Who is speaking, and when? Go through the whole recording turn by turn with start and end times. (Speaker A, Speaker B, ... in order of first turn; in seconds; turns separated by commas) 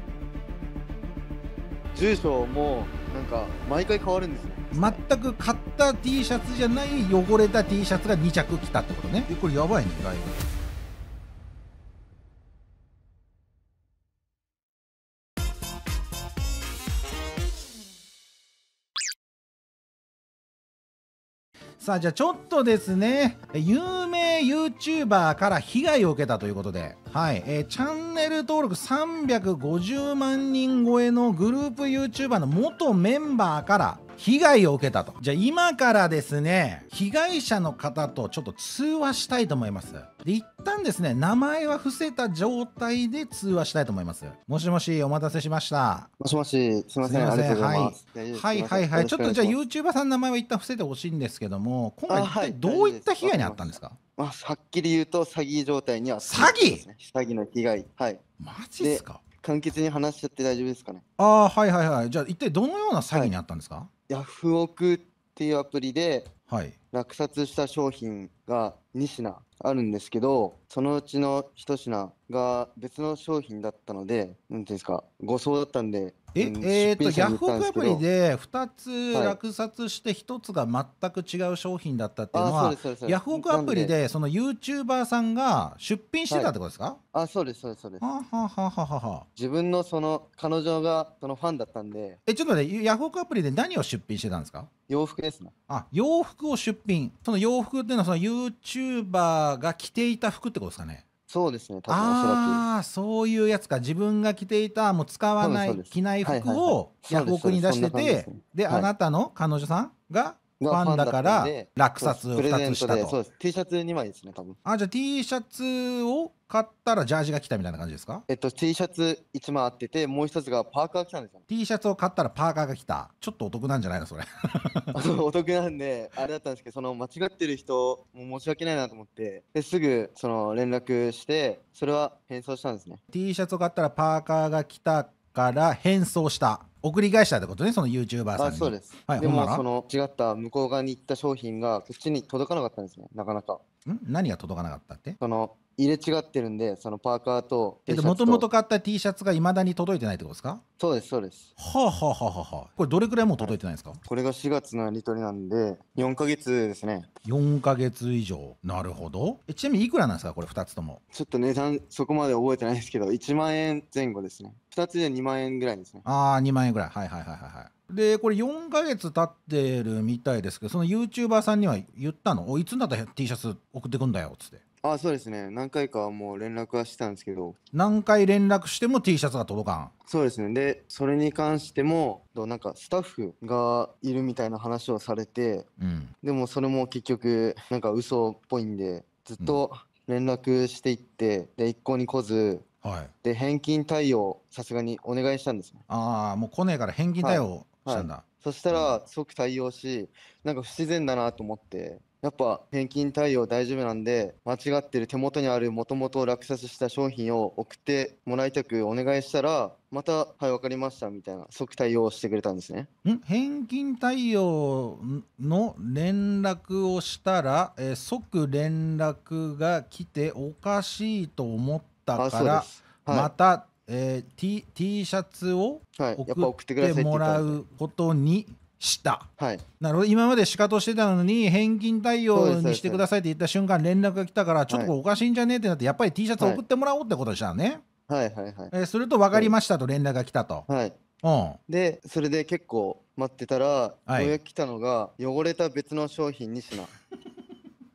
Speaker A: 1.9-5.0, Speaker B: 4.7-10.4, Speaker B: 21.8-46.1, Speaker A: 46.2-49.6, Speaker B: 47.0-54.0, Speaker A: 52.1-58.2, Speaker B: 56.2-56.8, Speaker B: 58.4-59.2, Speaker A: 58.8-61.0, Speaker B: 61.2-63.9, Speaker A: 64.1-66.3, Speaker B: 66.5-66.8, Speaker A: 66.9-78.0, Speaker B: 76.3-87.0, Speaker A: 79.1-79.4, Speaker A: 82.3-84.0, Speaker A: 87.1-88.0, Speaker B: 88.0-89.3, Speaker A: 89.4-92.2, Speaker B: 92.3-94.7, Speaker A: 94.9-95.5, Speaker B: 95.7-101.0, Speaker A: 101.3-102.6, Speaker B: 101.9-113.2, Speaker A: 105.4-108.9, Speaker A: 110.6-114.6, Speaker B: 114.7-118.2, Speaker A: 118.3-121.4, Speaker B: 121.5-124.9, Speaker A: 124.9-133.0, Speaker B: 133.1-139.6, Speaker A: 138.4-143.6, Speaker B: 143.9-145.2, Speaker A: 145.2-148.5, Speaker B: 147.9-150.6, Speaker A: 150.8-151.5, Speaker B: 151.6-154.0, Speaker A: 153.4-157.1, Speaker B: 157.2-161.0, Speaker A: 161.1-166.1, Speaker B: 166.1-174.6, Speaker A: 174.8-177.6, Speaker B: 177.7-179.9, Speaker A: 180.1-185.7, Speaker B: 185.8-186.1, Speaker A: 186.2-192.7, Speaker B: 192.8-193.1, Speaker A: 193.2-195.8, Speaker B: 195.9-199.0, Speaker A: 197.2-212.9, Speaker B: 213.0-229.3, Speaker A: 222.2-223.3, Speaker A: 226.0-227.6, Speaker A: 229.4-229.6, Speaker B: 229.8-237.8, Speaker A: 232.3-233.1, Speaker A: 238.1-238.7, Speaker B: 238.7-240.7, Speaker A: 240.7-241.0, Speaker B: 241.2-241.6, Speaker A: 241.7-246.9, Speaker B: 244.1-244.4